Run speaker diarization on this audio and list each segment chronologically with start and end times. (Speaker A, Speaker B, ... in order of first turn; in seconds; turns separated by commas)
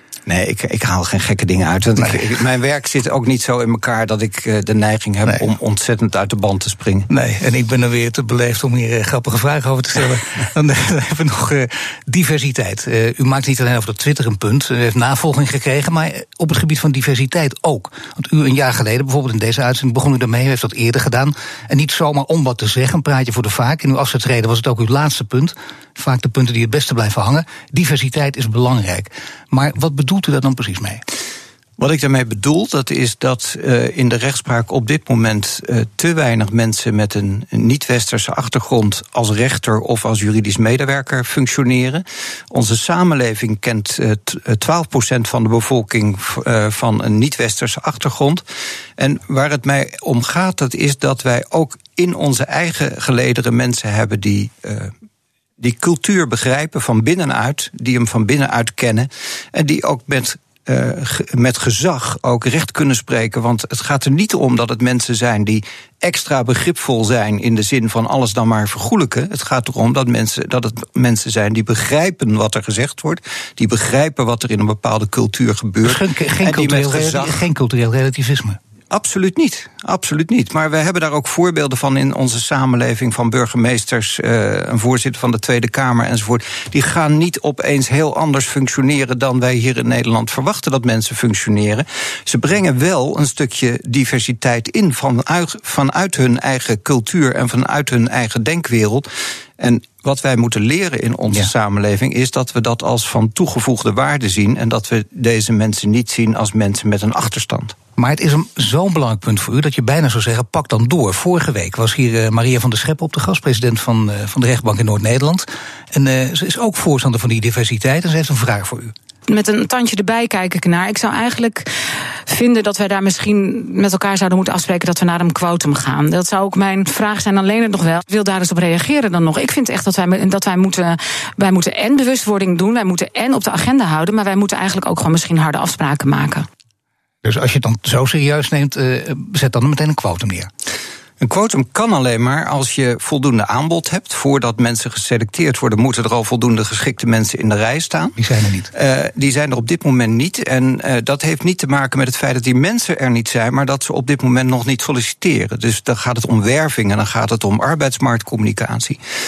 Speaker A: 0.3-7.1, Speaker B: 7.1-31.0, Speaker A: 31.8-48.4, Speaker A: 49.0-54.9, Speaker A: 55.6-77.5, Speaker B: 75.8-78.6, Speaker A: 78.9-99.1, Speaker A: 99.6-107.8, Speaker B: 108.0-118.9, Speaker C: 119.3-121.7, Speaker C: 122.3-136.5, Speaker B: 137.2-140.5, Speaker A: 141.2-148.2, Speaker B: 148.2-148.7, Speaker A: 148.7-159.0